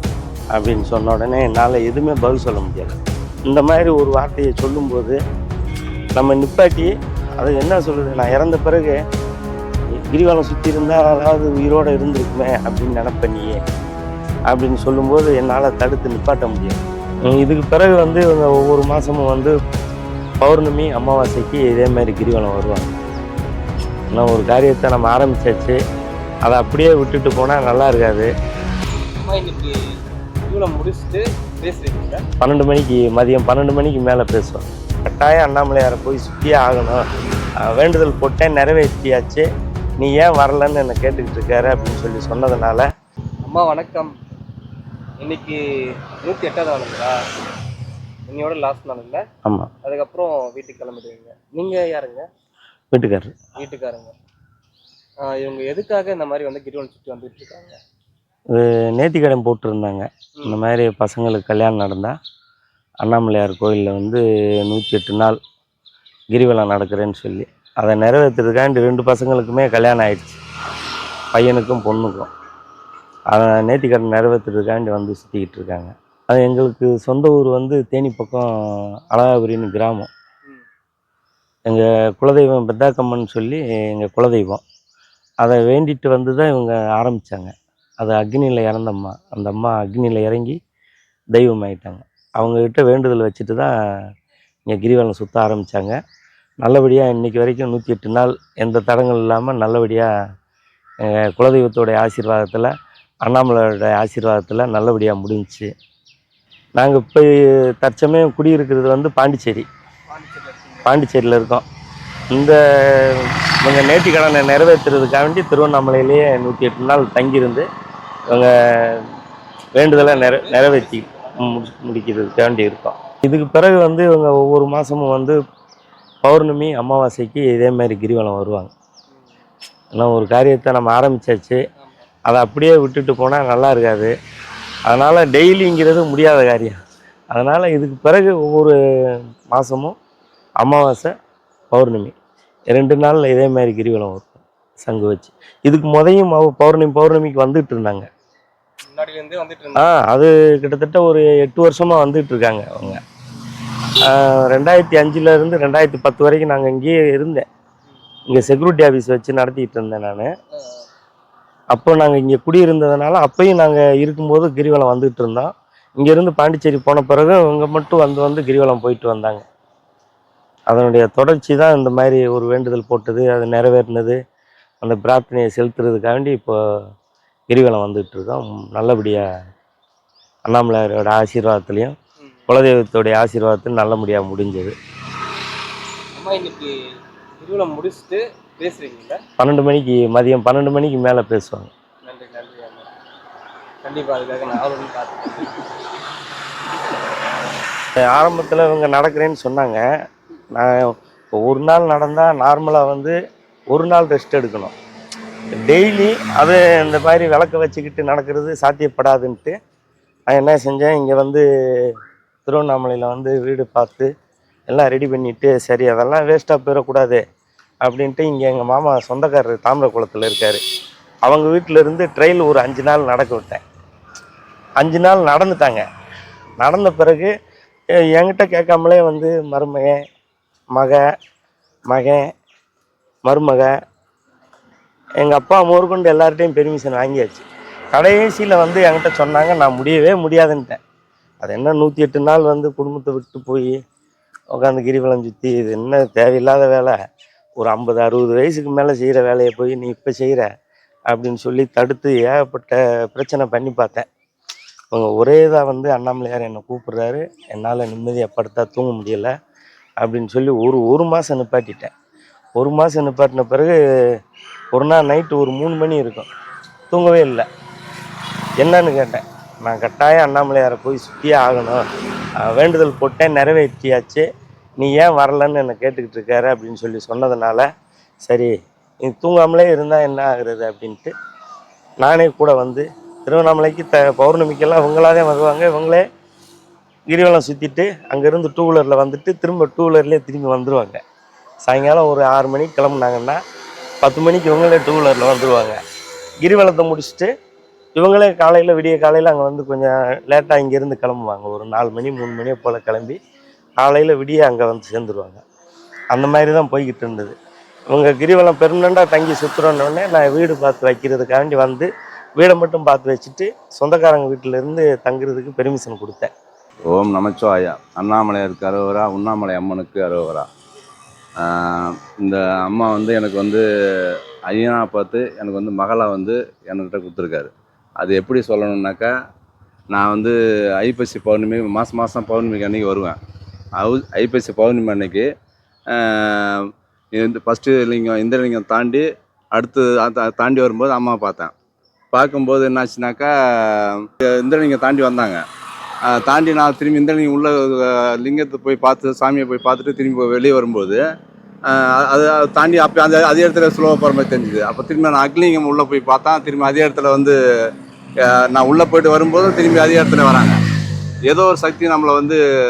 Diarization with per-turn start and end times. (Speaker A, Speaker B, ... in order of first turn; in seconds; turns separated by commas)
Speaker A: 0.5-2.9, Speaker A: 3.5-5.2, Speaker A: 6.2-9.0, Speaker A: 10.1-13.6, Speaker A: 14.5-19.5, Speaker A: 20.4-22.9, Speaker A: 24.1-25.8, Speaker A: 26.4-28.3, Speaker B: 29.2-29.7, Speaker B: 30.4-32.2, Speaker A: 32.4-37.0, Speaker A: 37.6-39.4, Speaker A: 40.0-42.9, Speaker B: 43.4-44.1, Speaker B: 45.2-45.6, Speaker B: 46.2-47.1, Speaker B: 48.3-49.2, Speaker A: 49.4-49.7, Speaker B: 49.8-52.3, Speaker A: 52.9-53.3, Speaker B: 53.5-54.1, Speaker B: 55.2-57.8, Speaker A: 58.5-62.1, Speaker A: 63.0-65.4, Speaker A: 66.3-70.4, Speaker A: 71.3-72.3, Speaker A: 73.3-78.4, Speaker A: 79.1-80.1, Speaker A: 81.7-84.6, Speaker A: 85.4-90.6, Speaker A: 91.3-93.7, Speaker A: 94.7-95.9, Speaker A: 96.6-100.1, Speaker A: 101.0-102.7, Speaker A: 103.2-105.7, Speaker A: 106.8-107.3, Speaker A: 107.8-109.7, Speaker B: 110.1-110.9, Speaker A: 110.8-111.6, Speaker A: 112.3-117.7, Speaker A: 118.3-119.0, Speaker A: 119.8-125.3, Speaker B: 119.9-121.6, Speaker A: 126.2-128.7, Speaker A: 129.9-131.6, Speaker B: 131.8-132.1, Speaker A: 132.3-134.1, Speaker A: 134.9-136.8, Speaker A: 137.3-138.7, Speaker A: 139.5-139.9, Speaker A: 140.6-141.1, Speaker A: 141.7-142.1, Speaker A: 142.7-148.1, Speaker B: 148.9-149.9, Speaker A: 149.8-153.0, Speaker A: 154.1-157.4, Speaker A: 158.3-160.3, Speaker B: 160.6-160.8, Speaker A: 161.7-169.4, Speaker A: 170.7-174.2, Speaker A: 174.8-176.5, Speaker A: 177.5-179.3, Speaker A: 180.5-181.9, Speaker A: 182.5-184.7, Speaker B: 186.2-186.7, Speaker B: 187.4-189.2, Speaker A: 189.4-191.7, Speaker B: 192.0-192.9, Speaker B: 193.8-195.6, Speaker A: 198.1-199.8, Speaker A: 200.5-200.8, Speaker A: 201.4-203.1, Speaker A: 203.7-204.7, Speaker A: 205.6-209.5, Speaker A: 210.3-211.9, Speaker A: 212.4-214.1, Speaker A: 214.7-217.2, Speaker A: 217.8-220.6, Speaker A: 221.2-223.6, Speaker A: 224.8-225.8, Speaker A: 226.6-227.3, Speaker A: 228.1-230.0, Speaker A: 230.7-231.0, Speaker A: 231.9-232.2, Speaker A: 233.2-233.7, Speaker A: 235.2-240.8, Speaker A: 241.4-243.8, Speaker A: 244.6-246.9, Speaker A: 247.6-250.5, Speaker A: 251.1-254.1, Speaker A: 254.9-259.3, Speaker A: 260.0-261.9, Speaker A: 262.6-263.7, Speaker A: 264.7-266.3, Speaker A: 266.9-267.4, Speaker A: 268.6-271.8, Speaker A: 272.4-274.2, Speaker A: 274.8-277.6, Speaker A: 278.3-278.5, Speaker A: 279.0-281.1, Speaker A: 282.0-286.0, Speaker A: 287.1-291.0, Speaker A: 291.7-293.4, Speaker A: 294.0-295.8, Speaker A: 296.4-297.3, Speaker A: 297.9-303.2, Speaker A: 303.8-305.4, Speaker A: 306.1-307.3, Speaker A: 307.9-316.3, Speaker C: 316.9-320.5, Speaker C: 321.4-329.1, Speaker C: 329.9-333.2, Speaker C: 333.8-335.2, Speaker C: 335.9-341.5, Speaker C: 342.1-345.4, Speaker C: 346.1-351.0, Speaker C: 351.7-357.3, Speaker C: 358.2-360.6, Speaker C: 361.3-362.4